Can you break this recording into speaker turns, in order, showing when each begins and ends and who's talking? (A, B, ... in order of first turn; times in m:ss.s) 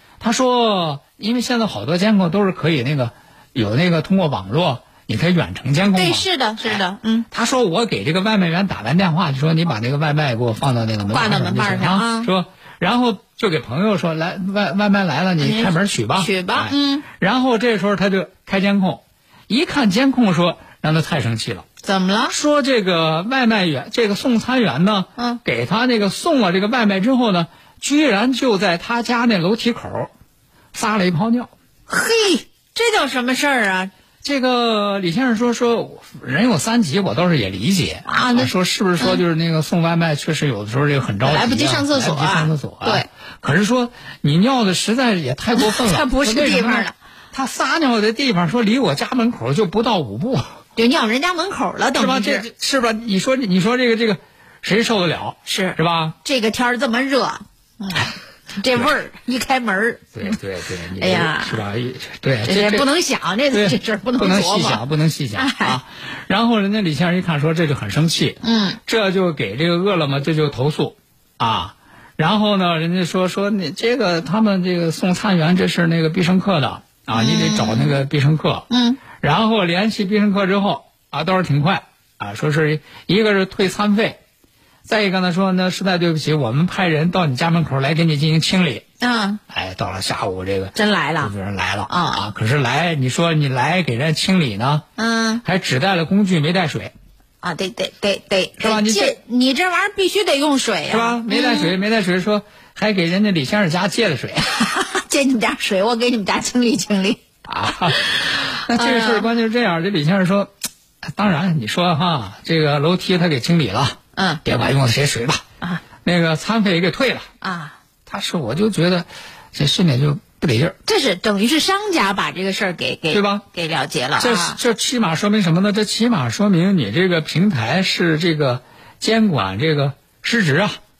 0:00.2-0:21.6 A
0:05.9-0:07.3 B
0:11.1-0:12.3 B
0:15.4-0:17.0 B
0:21.8-0:22.3 B
0:22.3-0:30.1 A
0:30.7-0:31.5 A
0:31.9-0:33.9 B
0:34.2-0:50.4 A
0:38.0-0:39.2 B
0:41.2-0:43.1 B
0:45.6-0:46.9 B
0:50.8-0:52.5 B
0:52.0-0:56.2 A
0:55.4-1:00.4 B
1:00.1-1:02.8 A
1:01.0-1:01.6 B
1:02.4-1:04.8 B
1:03.5-1:24.2 A
1:05.4-1:05.8 B
1:08.4-1:08.8 B
1:17.1-1:18.0 B
1:18.7-1:19.0 B
1:24.8-1:28.8 A
1:29.0-1:29.4 B
1:29.5-1:34.8 A
1:30.7-1:31.3 B
1:31.9-1:32.2 B
1:35.0-1:35.4 B
1:35.4-1:36.9 A
1:37.4-1:41.7 B
1:38.6-1:39.1 A
1:40.9-1:44.5 A
1:44.6-1:47.2 B
1:47.4-1:50.5 A
1:47.9-1:49.3 B
1:51.1-1:55.4 A
1:54.2-1:54.4 B
1:56.0-1:57.3 A
1:57.4-1:57.8 B
1:58.1-2:00.8 A
2:00.8-2:04.6 B
2:03.1-2:03.4 A
2:04.2-2:10.8 A